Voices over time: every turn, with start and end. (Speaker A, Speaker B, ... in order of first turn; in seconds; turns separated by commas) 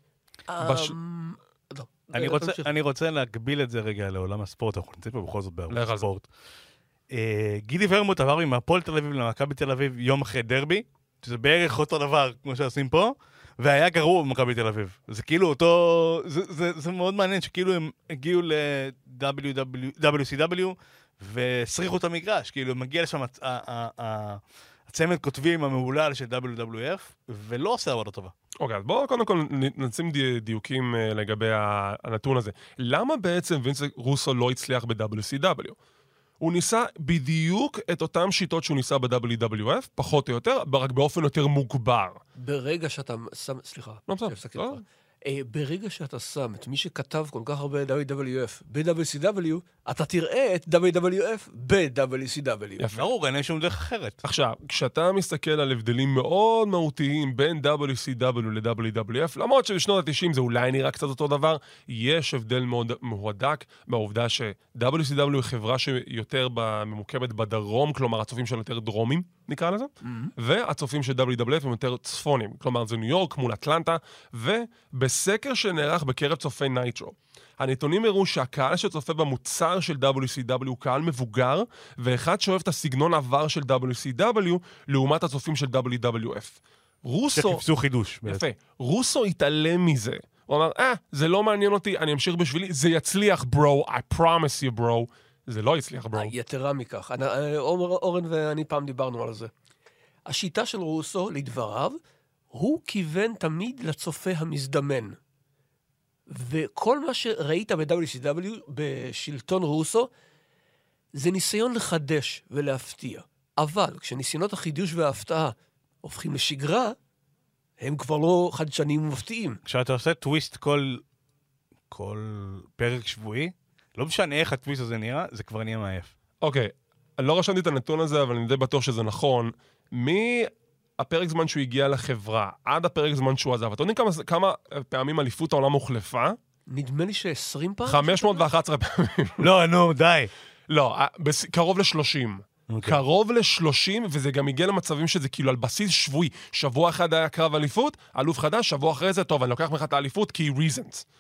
Speaker A: 0.5-2.7, Speaker B: 0.6-0.9, Speaker C: 2.1-6.3, Speaker B: 5.7-6.1, Speaker C: 7.1-28.3, Speaker B: 28.6-35.8, Speaker B: 36.4-42.2, Speaker A: 42.4-52.8, Speaker B: 44.1-44.8, Speaker B: 52.8-53.1, Speaker C: 52.9-54.2, Speaker B: 54.2-87.6, Speaker A: 70.0-70.3, Speaker C: 87.3-88.4, Speaker B: 88.2-96.3, Speaker A: 96.1-99.5, Speaker A: 100.3-102.0, Speaker A: 102.5-105.2, Speaker A: 106.3-110.1, Speaker A: 111.1-117.0, Speaker A: 117.8-119.6, Speaker C: 119.7-121.0, Speaker C: 121.9-126.1, Speaker B: 126.4-136.4, Speaker A: 136.7-138.5, Speaker B: 137.9-139.5, Speaker C: 139.4-140.3, Speaker B: 140.7-151.0, Speaker C: 142.7-143.0